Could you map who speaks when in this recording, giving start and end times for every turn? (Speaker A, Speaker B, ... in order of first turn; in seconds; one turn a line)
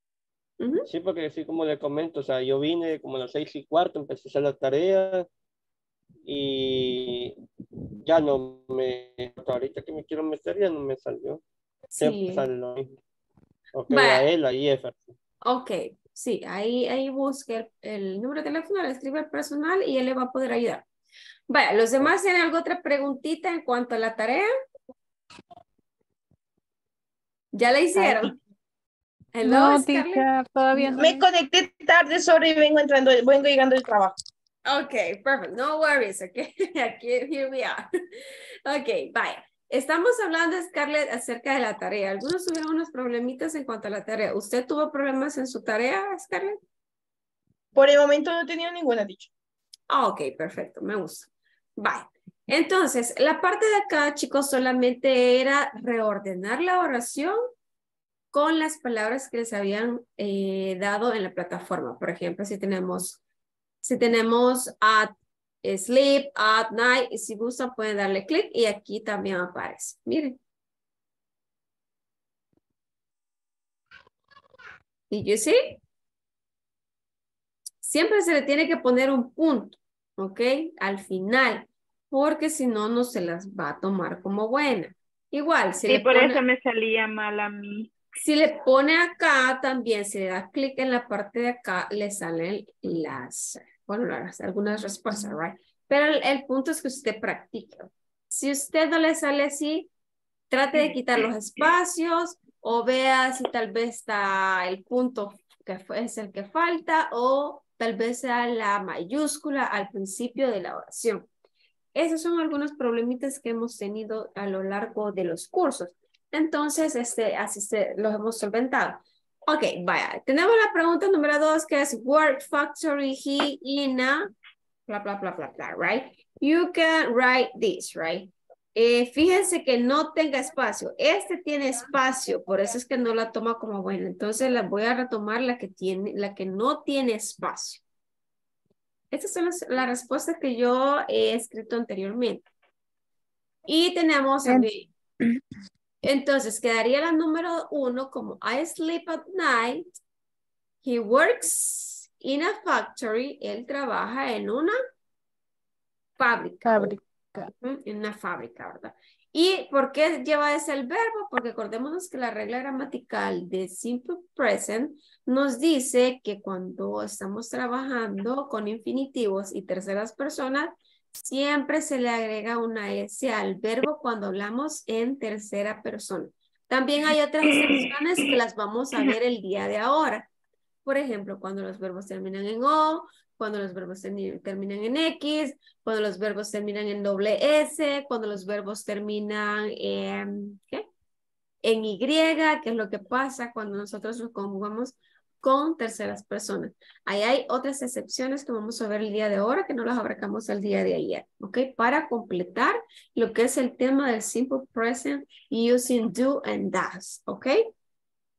Speaker A: 0.6-0.9
Speaker B: 0.9-5.2
Speaker B: 6.2-7.3
Speaker B: 8.0-11.4
Speaker A: 11.9-12.4
Speaker B: 12.0-12.9
Speaker B: 13.7-15.1
Speaker A: 13.9-14.2
Speaker A: 15.4-20.8
Speaker A: 21.5-24.5
Speaker A: 27.5-28.3
Speaker C: 27.9-28.3
Speaker A: 29.3-30.3
Speaker C: 29.4-31.2
Speaker D: 30.9-34.2
Speaker A: 34.6-37.9
Speaker A: 38.6-46.6
Speaker D: 47.7-49.3
Speaker A: 49.9-57.4
Speaker A: 58.3-63.2
Speaker A: 63.8-70.4
Speaker A: 75.1-75.8
Speaker A: 77.8-86.4
Speaker E: 85.8-87.9
Speaker A: 88.2-99.9
Speaker A: 100.5-111.3
Speaker A: 111.9-124.3
Speaker A: 124.9-137.8
Speaker A: 139.1-142.4
Speaker A: 143.7-144.9
Speaker A: 146.0-150.0
Speaker A: 150.8-154.7
Speaker A: 156.2-157.0
Speaker C: 156.6-157.5
Speaker A: 157.6-180.3
Speaker A: 180.8-190.8
Speaker A: 191.6-207.6